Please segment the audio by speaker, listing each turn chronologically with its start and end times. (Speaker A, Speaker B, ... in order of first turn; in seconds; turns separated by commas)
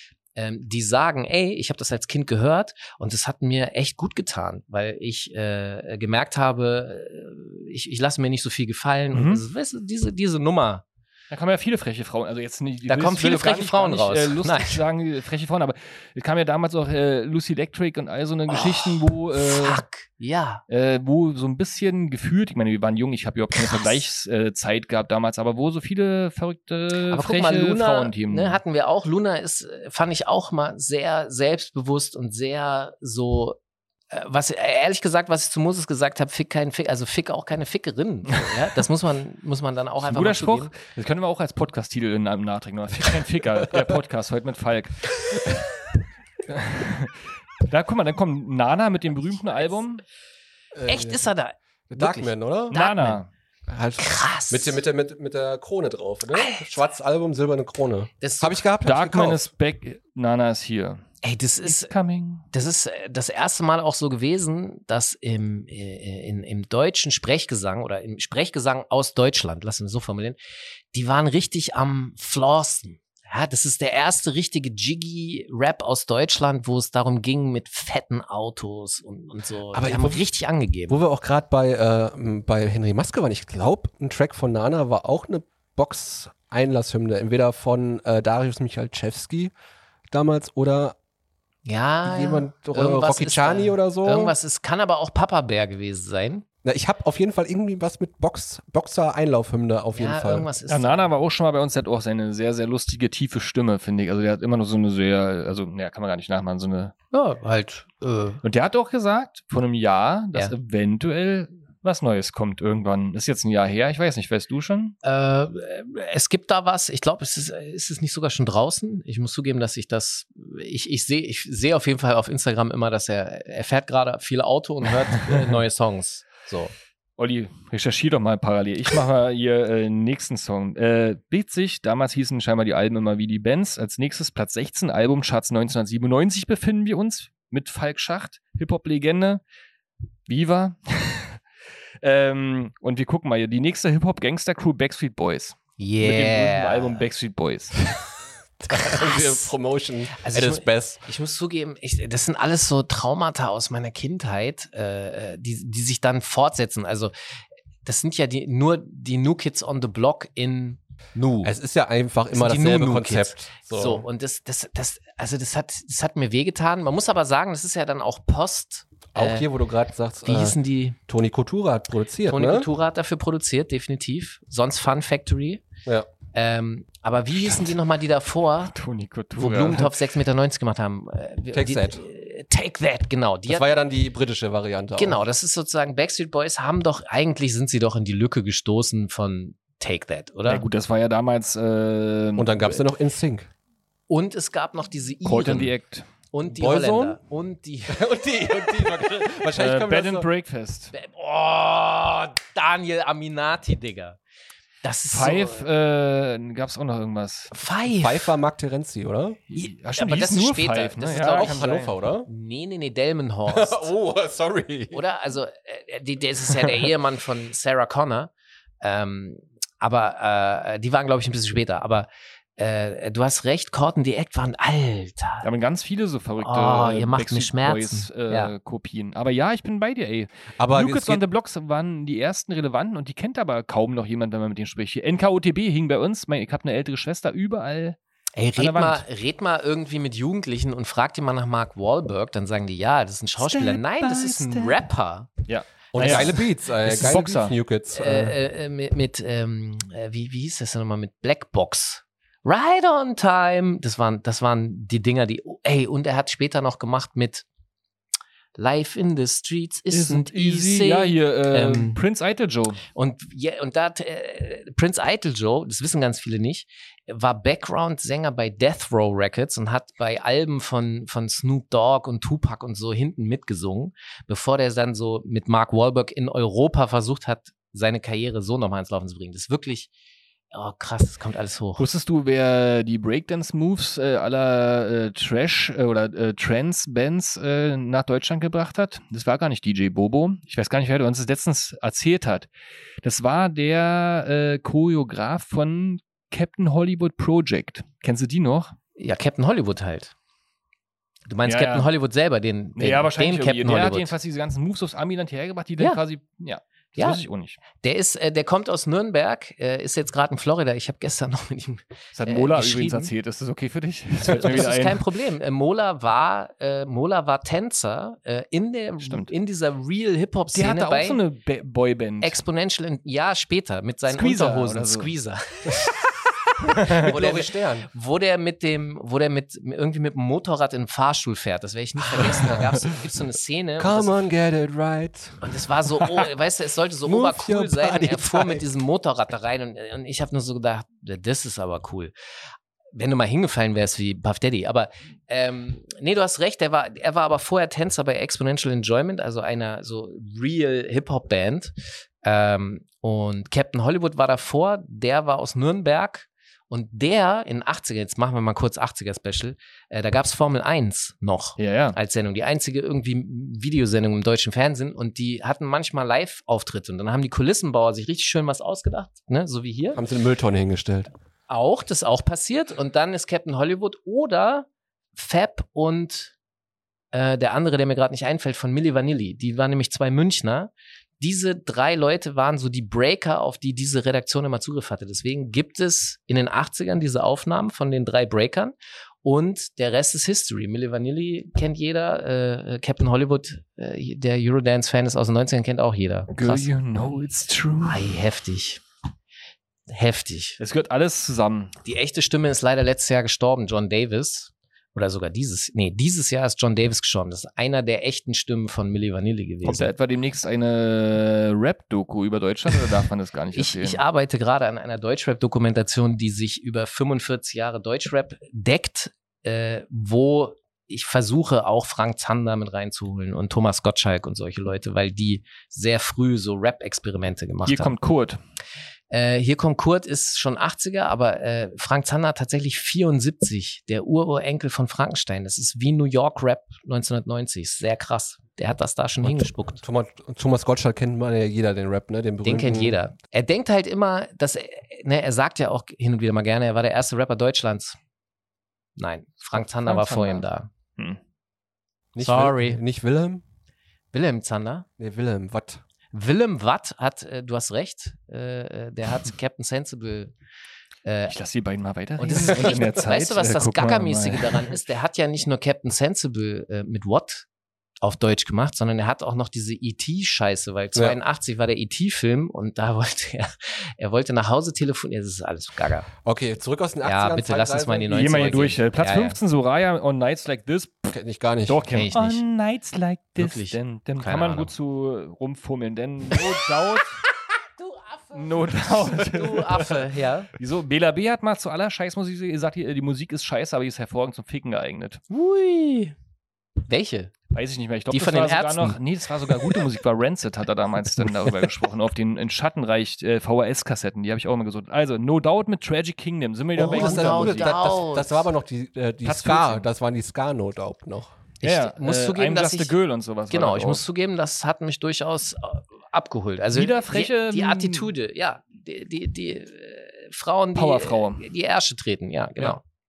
Speaker A: 0.3-10.8, Speaker B: 9.1-9.4, Speaker B: 11.3-19.8, Speaker A: 12.9-14.8, Speaker A: 18.5-20.6, Speaker B: 20.7-28.6, Speaker A: 23.6-23.9, Speaker A: 27.1-33.6, Speaker A: 34.1-40.7, Speaker B: 40.0-45.6, Speaker B: 46.5-50.0, Speaker C: 50.7-51.2, Speaker A: 50.9-53.2, Speaker C: 51.9-52.7, Speaker B: 52.7-53.3, Speaker C: 53.7-59.5, Speaker A: 54.0-54.8, Speaker A: 56.3-56.7, Speaker A: 58.2-58.6, Speaker B: 58.8-61.0, Speaker A: 61.2-61.9, Speaker B: 61.6-62.4, Speaker A: 62.5-70.4, Speaker A: 70.9-81.0, Speaker C: 79.7-80.2, Speaker C: 80.9-89.5, Speaker C: 90.1-91.0, Speaker A: 91.7-96.4, Speaker C: 92.0-94.3, Speaker C: 96.6-100.5, Speaker A: 99.9-101.1, Speaker B: 100.7-106.9, Speaker A: 107.1-108.4, Speaker B: 108.4-114.9, Speaker A: 115.0-126.7, Speaker B: 127.2-139.4, Speaker B: 140.3-141.4, Speaker B: 142.0-147.7, Speaker A: 145.8-147.0, Speaker C: 148.6-151.0, Speaker A: 148.7-149.5, Speaker A: 150.2-157.1, Speaker A: 157.8-161.5, Speaker C: 161.4-164.1, Speaker A: 162.3-169.5, Speaker C: 169.1-170.6, Speaker A: 170.2-171.0, Speaker C: 171.1-172.7, Speaker A: 172.3-175.6, Speaker A: 176.3-178.7, Speaker B: 178.7-180.0, Speaker A: 179.4-183.8, Speaker C: 181.5-182.0, Speaker C: 183.5-185.2, Speaker A: 185.0-190.6, Speaker B: 190.5-192.7, Speaker C: 192.3-193.5, Speaker A: 194.1-195.7, Speaker B: 195.2-196.1, Speaker A: 196.3-198.1, Speaker C: 196.5-197.2, Speaker C: 197.9-200.3, Speaker B: 199.5-200.9, Speaker A: 200.9-204.2, Speaker A: 204.8-205.6, Speaker B: 205.1-207.5, Speaker A: 207.5-208.3, Speaker C: 208.0-209.4, Speaker B: 209.5-211.9, Speaker A: 209.5-211.6, Speaker C: 211.3-212.3, Speaker A: 212.2-213.9, Speaker C: 213.5-215.0, Speaker A: 214.9-225.5, Speaker B: 225.4-238.0, Speaker A: 226.4-228.5, Speaker C: 230.6-231.2, Speaker A: 238.3-245.3, Speaker B: 238.6-239.0, Speaker B: 243.4-244.8, Speaker B: 245.5-247.5, Speaker C: 245.9-248.3, Speaker A: 246.0-246.3, Speaker A: 247.9-257.4, Speaker A: 258.6-262.0, Speaker B: 259.9-262.8, Speaker A: 262.9-279.9, Speaker A: 280.5-281.8, Speaker B: 281.8-292.5, Speaker B: 293.0-298.7, Speaker A: 298.9-300.1, Speaker A: 301.3-304.1, Speaker B: 301.4-301.9, Speaker B: 302.8-307.6, Speaker A: 307.8-313.1, Speaker B: 312.1-315.0, Speaker A: 314.3-321.2, Speaker B: 319.0-319.3, Speaker B: 320.5-322.4, Speaker A: 322.2-326.1, Speaker B: 324.1-325.1, Speaker A: 326.6-334.1, Speaker C: 326.9-327.9, Speaker C: 332.1-332.6, Speaker C: 333.8-335.4, Speaker A: 335.4-342.1, Speaker C: 337.1-338.6, Speaker A: 342.9-370.0, Speaker B: 361.6-362.0, Speaker C: 369.9-371.1, Speaker A: 371.5-376.3, Speaker A: 377.1-396.7, Speaker B: 396.3-398.2, Speaker A: 397.9-398.8, Speaker A: 399.9-400.6, Speaker B: 400.6-401.7, Speaker A: 401.8-409.9, Speaker B: 409.6-414.0, Speaker A: 413.5-427.9, Speaker B: 427.6-428.4, Speaker A: 429.1-439.8, Speaker C: 439.2-442.9, Speaker A: 442.4-448.0, Speaker A: 449.0-450.7, Speaker B: 449.5-450.4, Speaker C: 452.1-453.4, Speaker A: 452.2-452.8, Speaker A: 454.1-454.9, Speaker C: 455.0-455.8, Speaker A: 456.1-460.3, Speaker A: 461.0-461.4, Speaker B: 461.3-464.8, Speaker A: 462.2-467.4, Speaker A: 468.0-476.1, Speaker C: 476.2-478.7, Speaker A: 477.0-479.4, Speaker B: 478.1-481.1, Speaker C: 481.1-481.9, Speaker B: 481.7-487.1, Speaker A: 481.9-482.4, Speaker A: 483.4-484.7, Speaker A: 487.8-490.5, Speaker B: 488.3-490.0, Speaker B: 490.6-495.2, Speaker A: 495.3-496.1, Speaker A: 496.9-497.3, Speaker B: 497.5-507.8, Speaker A: 498.1-499.0, Speaker A: 506.8-508.5, Speaker C: 506.8-511.3, Speaker B: 509.2-509.9, Speaker A: 511.6-512.9, Speaker B: 511.6-514.0, Speaker A: 513.5-522.8, Speaker B: 516.7-518.1, Speaker B: 520.7-521.5